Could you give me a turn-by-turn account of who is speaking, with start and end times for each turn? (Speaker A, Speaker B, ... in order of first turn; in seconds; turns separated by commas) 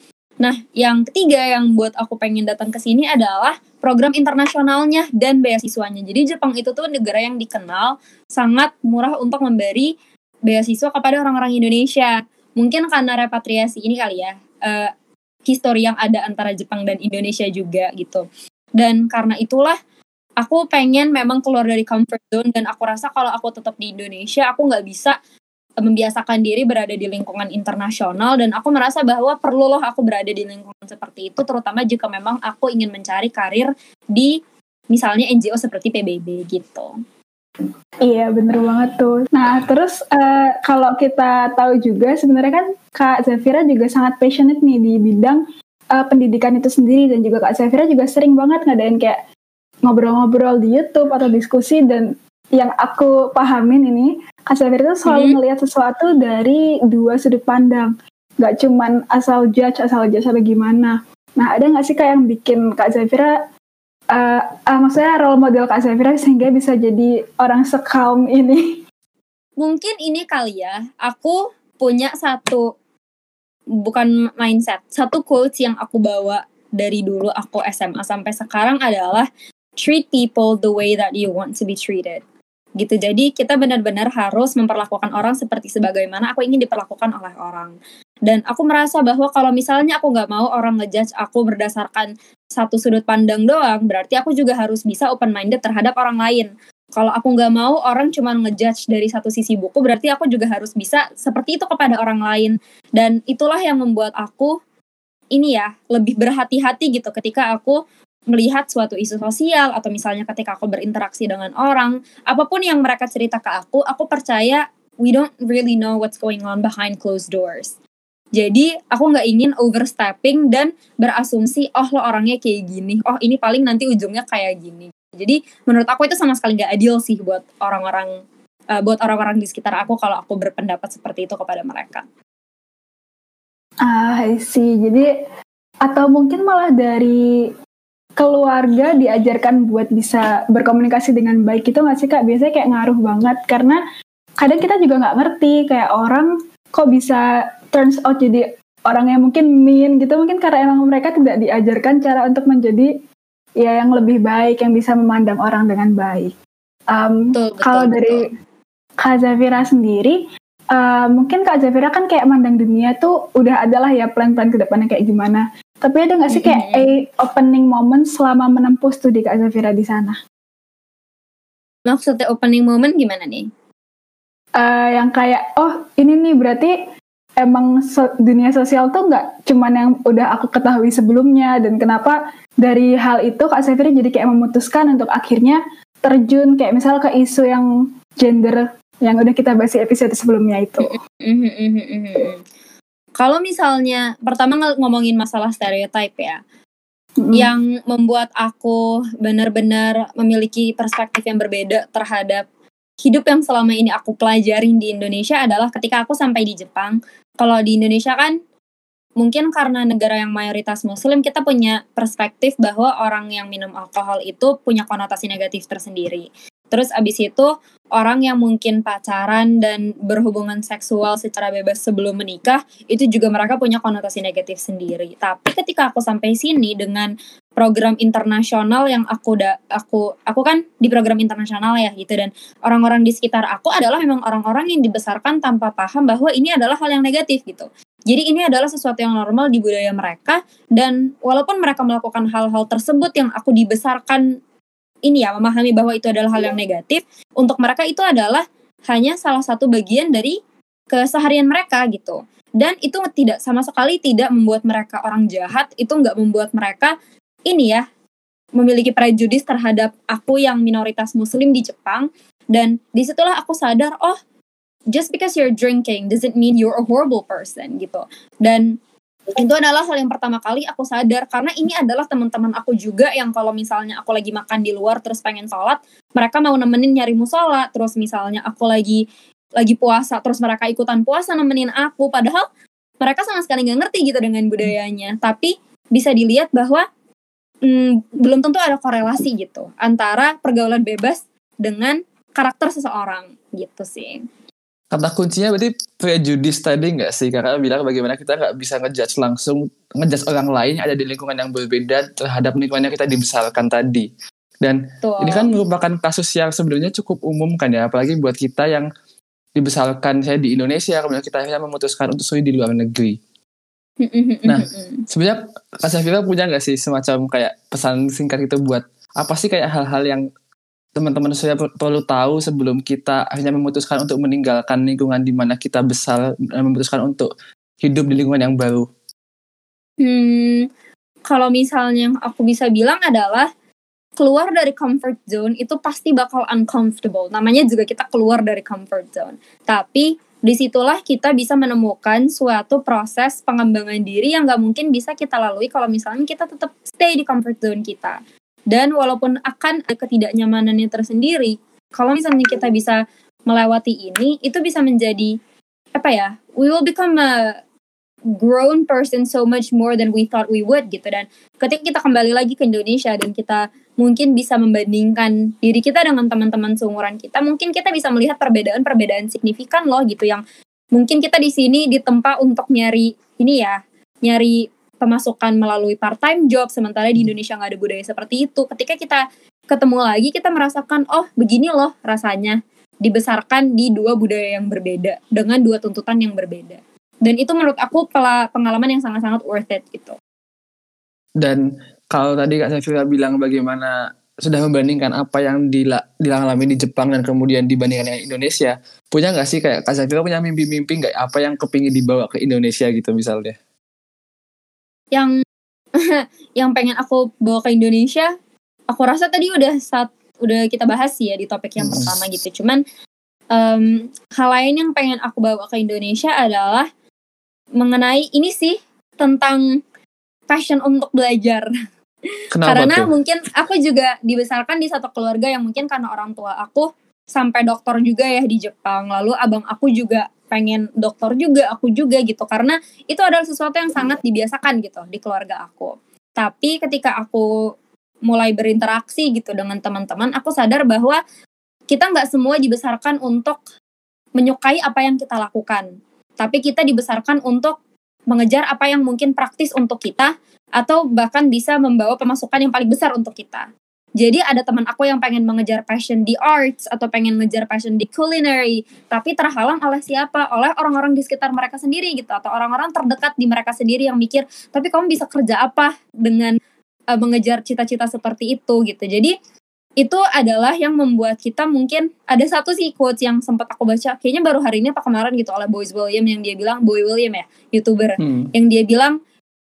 Speaker A: 0.4-9.9, Speaker A: 10.5-14.9, Speaker A: 15.5-18.2, Speaker A: 18.8-19.8, Speaker A: 20.4-25.1, Speaker A: 25.8-34.3, Speaker A: 34.9-36.9, Speaker B: 38.0-45.4, Speaker B: 45.9-49.2, Speaker B: 49.9-63.4, Speaker A: 55.1-55.4, Speaker B: 64.1-68.6, Speaker A: 69.6-72.7, Speaker A: 73.8-79.3, Speaker A: 79.8-82.2, Speaker A: 82.8-87.7, Speaker A: 88.3-104.5, Speaker A: 105.3-107.8, Speaker A: 108.3-117.8, Speaker A: 118.3-128.1, Speaker A: 128.8-132.0, Speaker B: 133.8-135.1, Speaker B: 135.8-137.2, Speaker B: 138.2-143.8, Speaker B: 144.4-152.9, Speaker B: 153.6-156.3, Speaker B: 156.9-158.2, Speaker A: 157.3-158.2, Speaker B: 159.0-160.2, Speaker B: 160.7-170.2, Speaker A: 166.3-166.9, Speaker A: 171.9-173.5, Speaker B: 174.6-176.8, Speaker B: 177.4-187.7, Speaker B: 188.2-190.9, Speaker A: 190.8-192.4, Speaker A: 193.2-196.4, Speaker B: 197.2-197.5, Speaker A: 197.3-202.4, Speaker A: 203.0-208.3, Speaker A: 209.2-244.2, Speaker A: 245.1-250.3, Speaker A: 250.9-256.9, Speaker A: 257.5-257.8, Speaker A: 258.6-264.2, Speaker A: 264.9-268.7, Speaker A: 269.4-279.0, Speaker A: 279.6-282.4, Speaker A: 283.0-286.8, Speaker A: 287.7-294.2, Speaker C: 294.9-304.1, Speaker C: 304.6-308.9, Speaker A: 305.0-305.5, Speaker C: 309.6-313.2, Speaker A: 314.0-315.0, Speaker C: 314.5-320.2, Speaker C: 321.0-327.3, Speaker C: 327.8-328.9, Speaker A: 330.0-330.6, Speaker A: 331.3-333.5, Speaker A: 334.2-348.2, Speaker A: 348.7-355.3, Speaker A: 355.9-357.5, Speaker A: 358.4-370.4, Speaker A: 370.9-390.2, Speaker C: 391.4-403.6, Speaker A: 406.0-408.3, Speaker A: 408.9-412.8, Speaker C: 411.8-412.2, Speaker A: 413.5-416.9, Speaker A: 417.8-419.6, Speaker A: 420.5-421.7, Speaker C: 422.5-423.1, Speaker A: 422.6-437.5, Speaker A: 438.3-441.2, Speaker A: 441.9-443.6, Speaker A: 444.4-445.9, Speaker A: 446.4-447.8, Speaker A: 448.3-453.7, Speaker A: 454.2-466.6, Speaker A: 467.1-469.3, Speaker A: 470.0-479.1, Speaker C: 478.2-478.5